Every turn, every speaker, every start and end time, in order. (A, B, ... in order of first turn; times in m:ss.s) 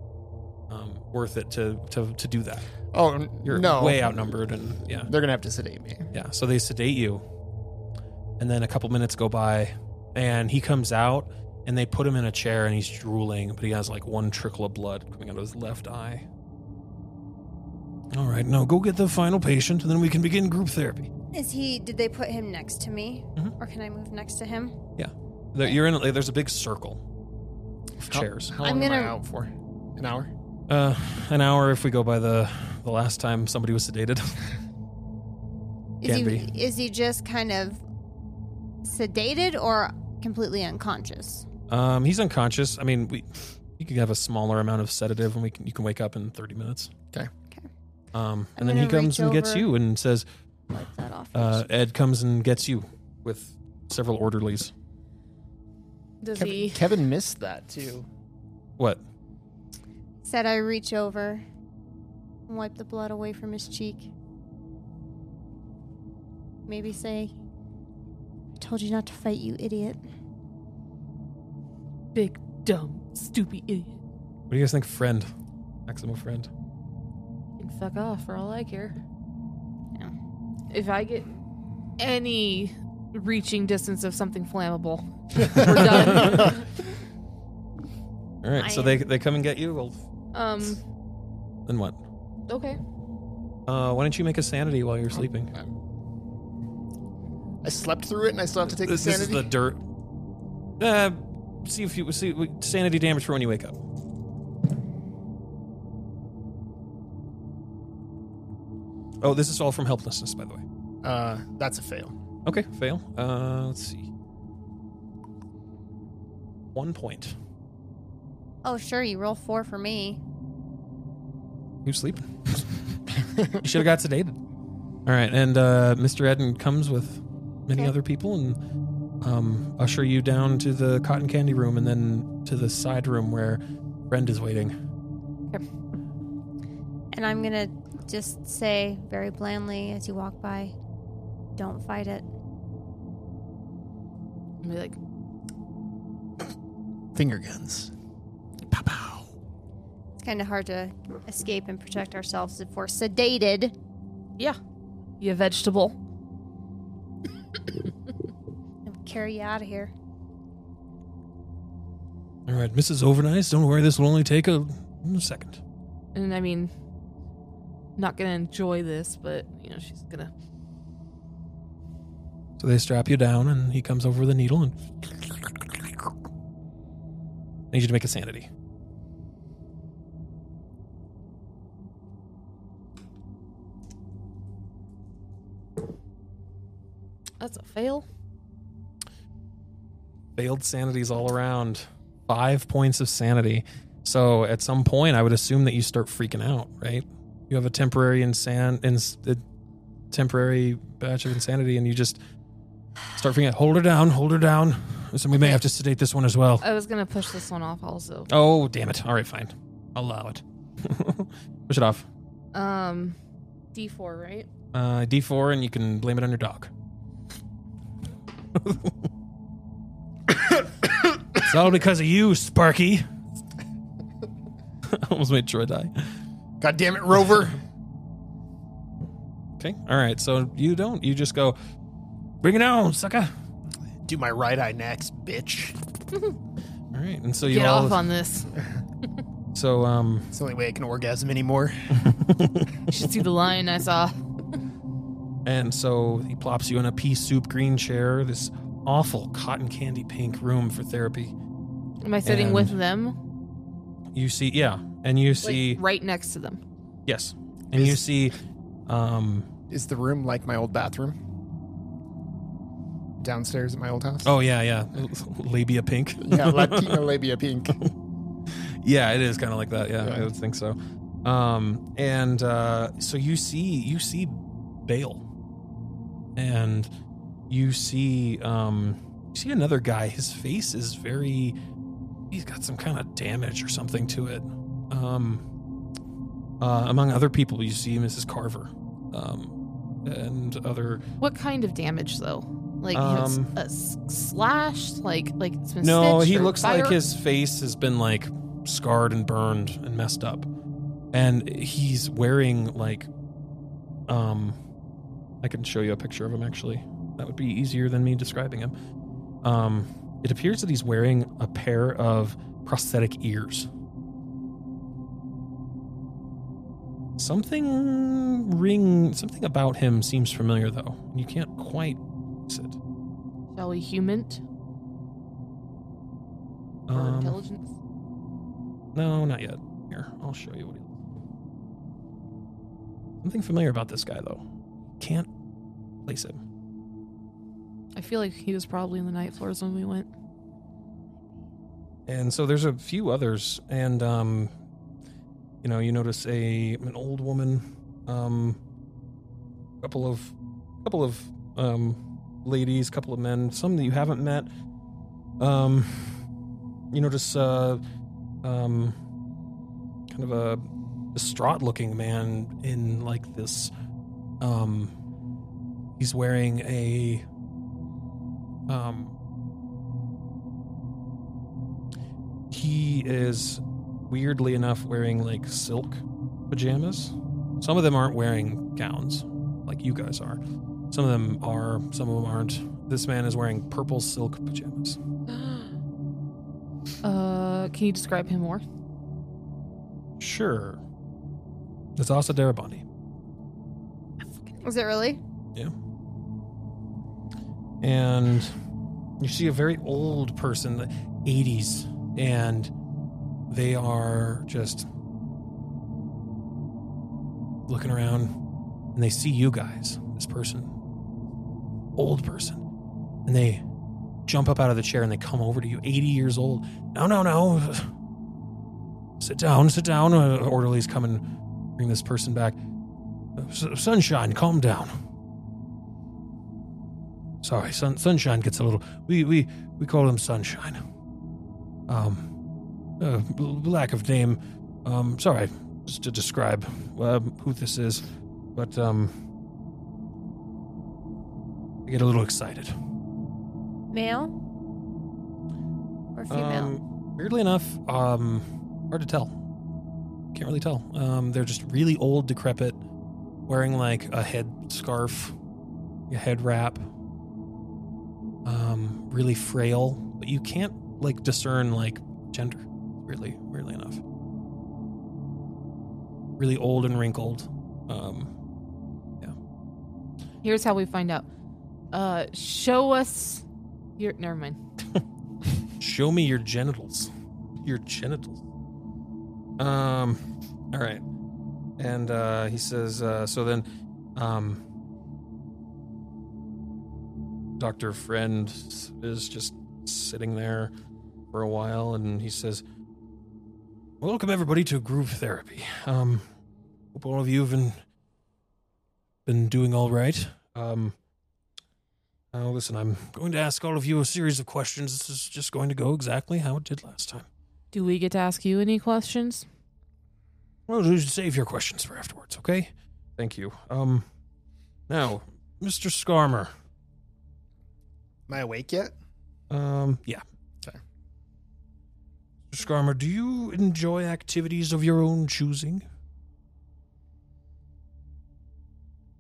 0:00.7-0:02.7 A
0:02.9-0:04.2 B
0:03.4-0:05.1 A
0:05.0-0:06.1 B
0:06.1-0:07.2 A
0:08.4-0:16.2 A
0:18.1-0:21.1 A
0:21.3-0:24.8 C
0:25.0-0:27.0 A
0:28.0-0:28.6 A
0:28.1-0:30.3 B
0:28.6-0:29.2 C
0:30.7-0:34.4 A
0:36.0-0:37.8 C
0:36.0-0:36.5 A
0:38.8-0:41.5 C
0:41.7-0:46.9 A
0:48.1-0:50.3 A
0:48.6-0:49.7 C
0:50.7-0:51.7 C
0:51.3-0:54.7 A
0:56.2-0:56.8 D
0:56.4-0:58.1 B
1:00.2-1:01.4 C
1:02.5-1:04.1 C
1:06.7-1:07.3 C
1:08.6-1:10.0 C
1:12.1-1:14.0 D
1:14.5-1:15.3 A
1:15.9-1:16.5 A
1:17.6-1:19.0 D
1:20.7-1:21.3 D
1:22.0-1:26.7 D
1:25.9-1:26.5 A
1:28.4-1:30.0 A
1:28.6-1:29.0 C
1:30.3-1:30.8 D
1:31.7-1:32.0 A
1:32.5-1:32.8 D
1:33.7-1:35.5 A
1:37.6-1:39.5 B
1:38.6-1:39.8 A
1:40.8-1:43.8 A
1:49.2-1:50.6 A
1:51.0-1:52.1 B
1:52.5-1:54.1 A
1:56.7-1:57.4 A
1:58.6-2:00.2 C
2:01.8-2:04.4 A
2:05.1-2:08.6 A
2:09.2-2:14.7 A
2:17.1-2:20.7 C
2:21.6-2:22.3 C
2:24.6-2:25.0 D
2:27.1-2:27.9 B
2:28.7-2:29.3 B
2:30.2-2:33.8 C
2:35.2-2:36.0 D
2:38.9-2:39.9 C
2:42.5-2:45.6 A
2:46.1-2:46.7 D
2:48.0-2:50.3 D
2:52.6-2:55.6 A
2:57.7-2:58.5 A
3:07.4-3:08.1 D
3:10.4-3:19.4 A
3:20.1-3:22.2 A
3:23.1-3:26.6 A
3:26.6-3:28.3 D
3:28.3-3:32.1 A
3:32.5-3:33.2 D
3:33.7-3:34.5 D
3:34.7-3:36.7 A
3:38.6-3:38.9 A
3:40.5-3:43.1 A
3:44.8-3:46.1 A
3:46.6-3:47.6 B
3:49.6-3:51.6 A
3:52.4-3:53.3 A
3:54.0-3:55.8 B
3:56.9-3:58.1 A
3:57.5-3:58.6 D
3:59.5-4:00.3 A
4:00.3-4:02.1 B
4:02.0-4:02.7 A
4:02.9-4:04.2 D
4:05.4-4:11.3 A
4:12.0-4:13.2 D
4:12.2-4:12.8 A
4:14.1-4:15.8 A
4:15.4-4:16.6 D
4:17.1-4:19.5 A
4:19.7-4:21.2 B
4:23.2-4:24.3 B
4:24.2-4:27.0 A
4:26.2-4:27.8 B
4:28.5-4:35.2 A
4:30.0-4:30.3 B
4:36.4-4:36.9 A
4:37.5-4:41.6 A
4:42.3-4:45.4 A
4:46.6-4:51.0 A
4:51.2-4:57.0 D
4:52.9-4:53.5 A
4:55.8-5:00.5 A
5:01.1-5:03.1 A
5:04.1-5:04.6 A
5:05.4-5:08.7 A
5:09.4-5:13.7 A
5:17.2-5:22.8 A
5:23.6-5:24.4 D
5:26.9-5:27.4 A
5:26.9-5:27.7 D
5:29.0-5:31.0 A
5:33.2-5:34.4 A
5:35.0-5:35.3 A
5:36.1-5:36.4 A
5:38.0-5:40.1 D
5:42.1-5:44.5 A
5:45.6-5:48.6 A
5:49.8-5:54.5 A
5:55.4-5:56.2 A
5:56.9-5:57.8 A
5:58.4-5:59.0 A
6:00.1-6:03.7 A
6:04.4-6:04.9 A
6:06.0-6:07.2 A
6:08.7-6:09.2 A
6:12.5-6:20.4 A
6:20.9-6:25.0 A
6:25.3-6:25.7 D
6:27.0-6:28.6 D
6:30.2-6:30.8 A
6:32.0-6:32.8 A
6:34.6-6:35.2 C
6:37.8-6:38.5 A
6:39.2-6:42.7 A
6:43.5-6:44.9 A
6:47.7-6:48.3 A
6:49.0-6:50.7 A
6:52.0-6:52.6 A
6:53.3-6:53.6 A
6:54.3-6:57.9 A
6:59.2-7:01.2 A
7:01.8-7:02.6 A
7:03.4-7:05.0 A
7:07.4-7:10.8 A
7:11.9-7:12.3 A
7:13.0-7:19.1 A
7:21.9-7:22.7 A
7:23.9-7:24.4 C
7:26.2-7:26.7 C
7:26.3-7:29.3 A
7:30.3-7:32.8 A
7:33.5-7:35.4 A
7:36.1-7:36.9 A
7:38.4-7:44.0 A
7:46.4-7:48.3 A
7:50.4-7:51.3 D
7:51.9-7:53.4 D
7:54.0-7:54.6 D
7:55.8-7:57.1 A
7:57.6-7:58.4 A
7:59.6-8:01.0 A
8:01.8-8:04.6 A
8:07.6-8:10.7 A
8:11.3-8:12.6 A
8:14.0-8:16.2 A
8:16.9-8:17.8 A
8:19.3-8:21.0 A
8:22.3-8:27.3 A
8:27.7-8:29.5 D
8:30.7-8:34.0 A
8:34.9-8:36.5 A
8:38.3-8:38.9 B
8:39.5-8:40.2 A
8:42.5-8:45.8 A